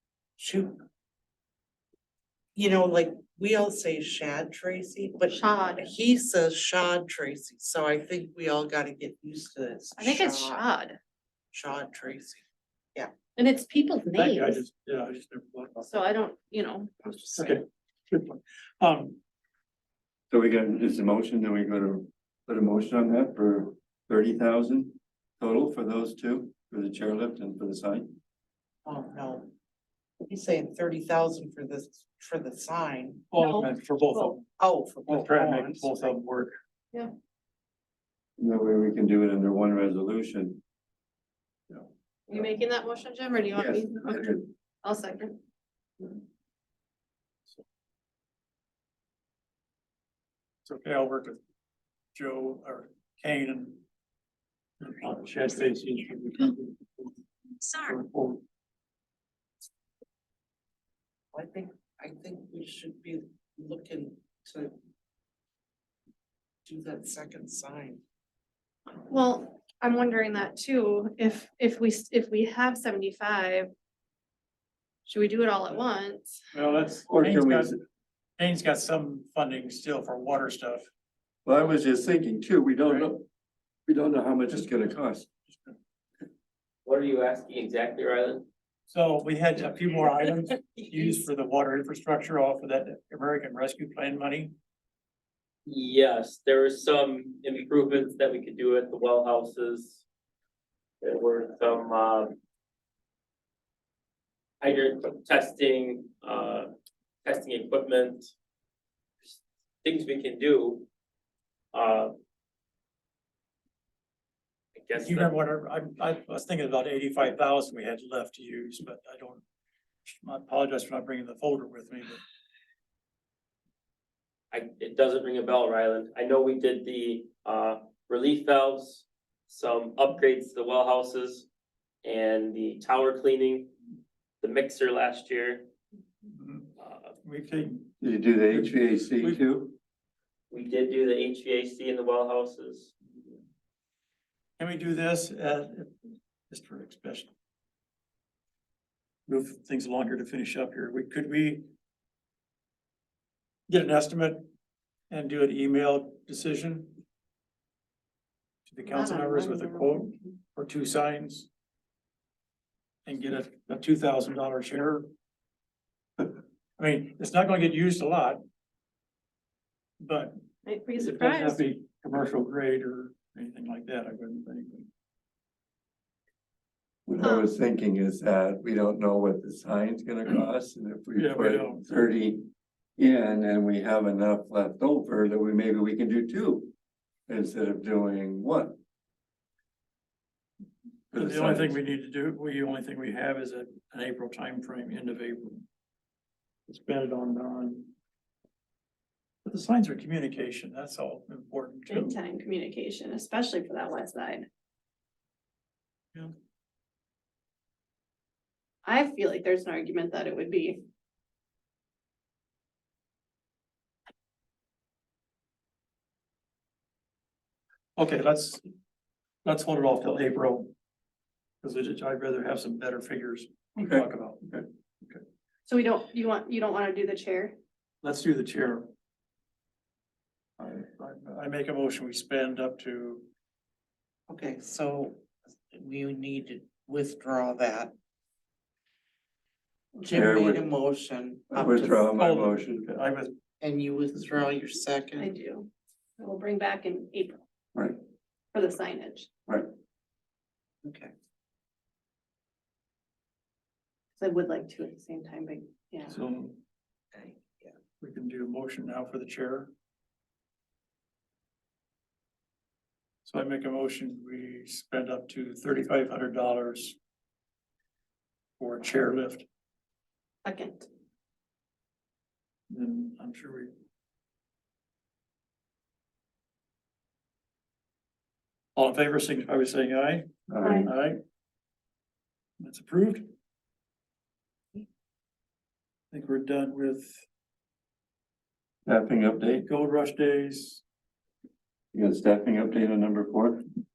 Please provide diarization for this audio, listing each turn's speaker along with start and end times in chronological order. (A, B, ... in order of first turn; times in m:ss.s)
0:00.4-0:00.8 A
0:02.6-0:10.6 A
0:05.3-0:05.9 B
0:10.0-0:11.0 B
0:11.5-0:13.1 A
0:13.4-0:14.6 B
0:14.2-0:15.9 C
0:15.9-0:16.9 B
0:17.0-0:17.6 A
0:17.4-0:19.2 C
0:20.3-0:28.1 D
0:28.9-0:29.5 A
0:30.2-0:33.3 A
0:33.3-0:34.4 C
0:33.4-0:34.3 B
0:34.6-0:36.0 A
0:35.1-0:36.6 C
0:38.4-0:40.6 D
0:42.3-0:45.4 B
0:43.5-0:44.5 D
0:50.6-0:51.4 C
0:52.1-0:53.8 C
0:54.8-0:57.1 C
0:57.7-0:58.4 C
1:01.3-1:04.8 A
1:06.6-1:08.0 A
1:09.1-1:13.7 B
1:15.1-1:16.3 B
1:16.5-1:17.8 C
1:17.1-1:17.8 D
1:18.4-1:20.9 C
1:21.4-1:23.2 D
1:22.8-1:23.1 C
1:23.9-1:25.3 D
1:24.5-1:24.8 C
1:26.8-1:28.5 E
1:28.9-1:34.5 C
1:35.7-1:40.0 E
1:41.0-1:42.4 E
1:44.6-1:46.7 E
1:47.2-1:48.3 E
1:49.2-1:50.9 E
1:51.7-1:52.2 E
1:54.8-1:55.3 E
1:55.0-1:59.4 C
2:00.0-2:02.2 C
2:04.5-2:11.5 E
2:12.0-2:13.7 E
2:14.4-2:15.7 E
2:16.3-2:16.7 C
2:16.8-2:17.1 E
2:17.2-2:18.0 C
2:18.0-2:19.8 D
2:18.5-2:19.4 C
2:20.5-2:22.9 E
2:24.6-2:25.9 C
2:26.5-2:27.3 C
2:29.3-2:31.7 C
2:33.7-2:34.5 C
2:35.1-2:37.0 C
2:38.7-2:41.5 C
2:38.8-2:40.4 B
2:43.1-2:45.1 C
2:46.2-2:48.4 C
2:50.0-2:50.4 C
2:50.7-2:51.6 B
2:51.0-2:54.9 C
2:57.1-3:02.5 D
2:57.2-2:57.5 B
3:01.2-3:01.8 C
3:03.0-3:06.7 D
3:07.3-3:08.8 D
3:11.1-3:11.8 D
3:11.2-3:15.6 C
3:16.7-3:17.9 C
3:19.4-3:22.2 C
3:21.9-3:24.5 B
3:28.8-3:30.8 B
3:38.0-3:38.6 C
3:39.4-3:40.7 C
3:41.6-3:44.4 C
3:43.8-3:44.6 D
3:45.7-3:47.6 B
3:48.0-3:48.9 C
3:50.6-3:53.3 C
3:54.3-3:57.9 A
4:00.0-4:02.1 A
4:00.1-4:00.7 D
4:01.5-4:02.9 D
4:02.2-4:03.3 C
4:03.6-4:05.3 A
4:05.2-4:07.4 B
4:08.5-4:09.3 B
4:10.8-4:11.1 A
4:14.2-4:16.2 B
4:16.1-4:16.6 C
4:17.1-4:17.7 A
4:18.0-4:19.7 C
4:23.2-4:27.0 C
4:28.6-4:29.5 C
4:30.4-4:30.9 B
4:32.7-4:33.7 C
4:38.8-4:40.3 C
4:40.5-4:40.9 D
4:40.6-4:40.9 B
4:40.8-4:41.2 C
4:42.6-4:43.3 C
4:46.1-4:47.2 C
4:48.9-4:49.6 D
4:49.6-4:50.8 C
4:51.9-4:53.6 D